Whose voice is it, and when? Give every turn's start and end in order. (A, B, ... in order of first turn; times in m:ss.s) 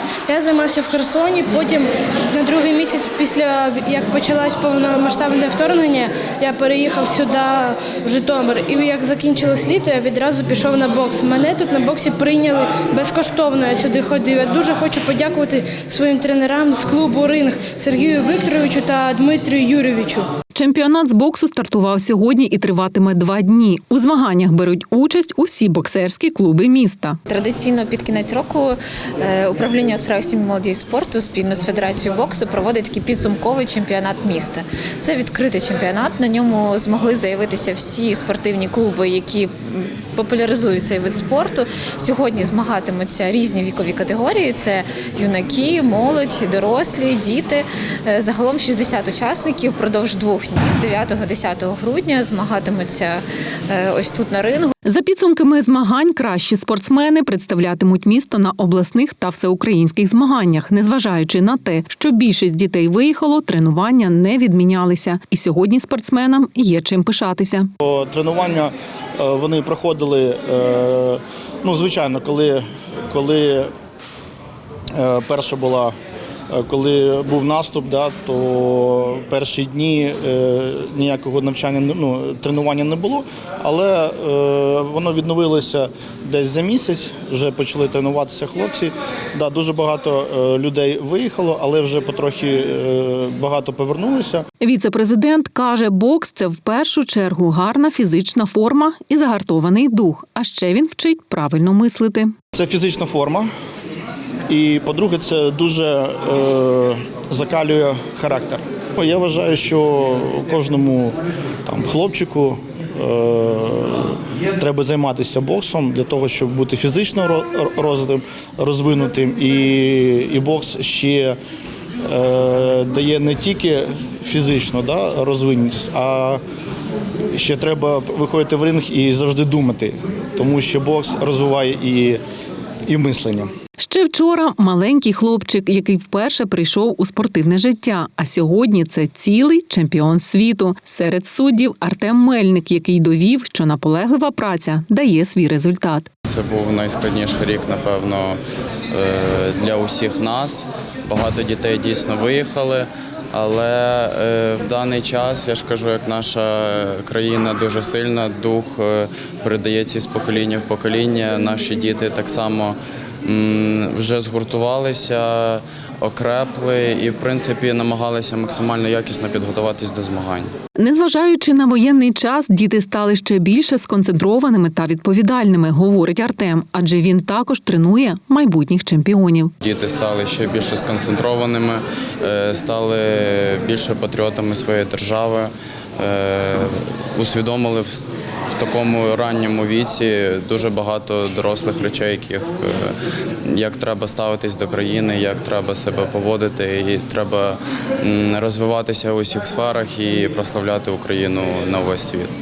0:00.3-0:20.2 A
0:20.5-0:27.2 B
0:27.3-0:54.7 C
0:54.8-1:07.7 B
1:07.8-1:13.7 D
1:14.9-1:15.9 D
1:16.5-1:34.4 D
1:34.6-1:42.3 B
1:42.6-1:43.5 D
1:44.5-2:01.4 D
2:02.0-2:06.4 D
2:07.3-2:12.2 D
2:12.9-2:13.5 D
2:13.8-2:26.1 B
2:26.3-2:50.5 E
2:50.8-2:59.5 B
2:59.6-3:12.9 E
3:13.4-3:22.3 E